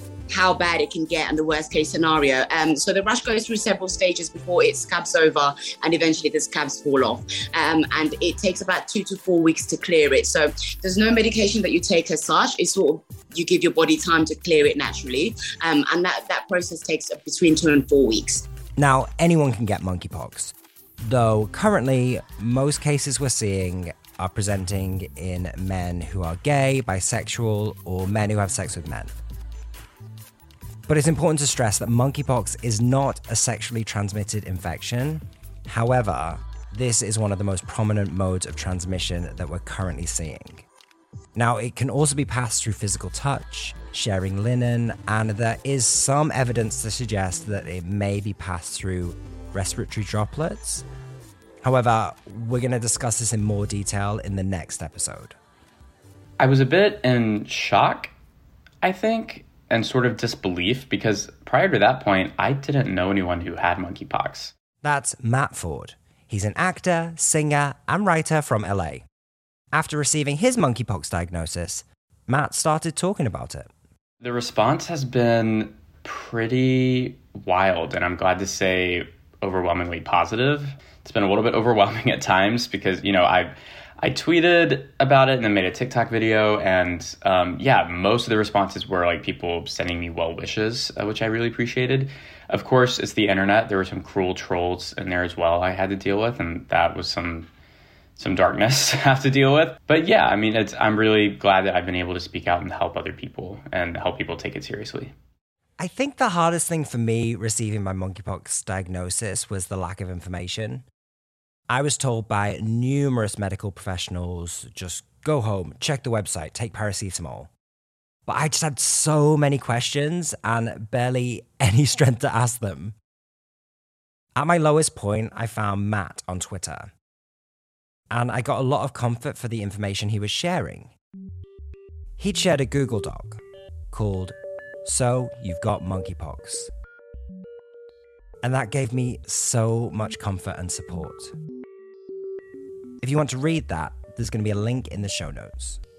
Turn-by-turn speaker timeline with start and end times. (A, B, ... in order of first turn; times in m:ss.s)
0:00.3-0:18.4 A
0:18.8-0:29.1 B
0:30.9-0:40.6 B
0:41.3-0:50.8 B
0:51.6-0:55.4 B
0:56.4-0:58.1 C
0:58.8-1:04.5 C
1:04.8-1:09.0 B
1:09.7-1:13.7 B
1:14.2-1:37.5 C
1:38.2-1:45.1 C
1:45.8-1:50.8 B
1:51.7-1:57.5 B
1:58.2-2:02.9 B
2:04.4-2:06.9 B
2:08.1-2:10.9 B
2:12.2-2:16.7 B
2:18.4-2:21.3 B
2:23.0-2:25.8 B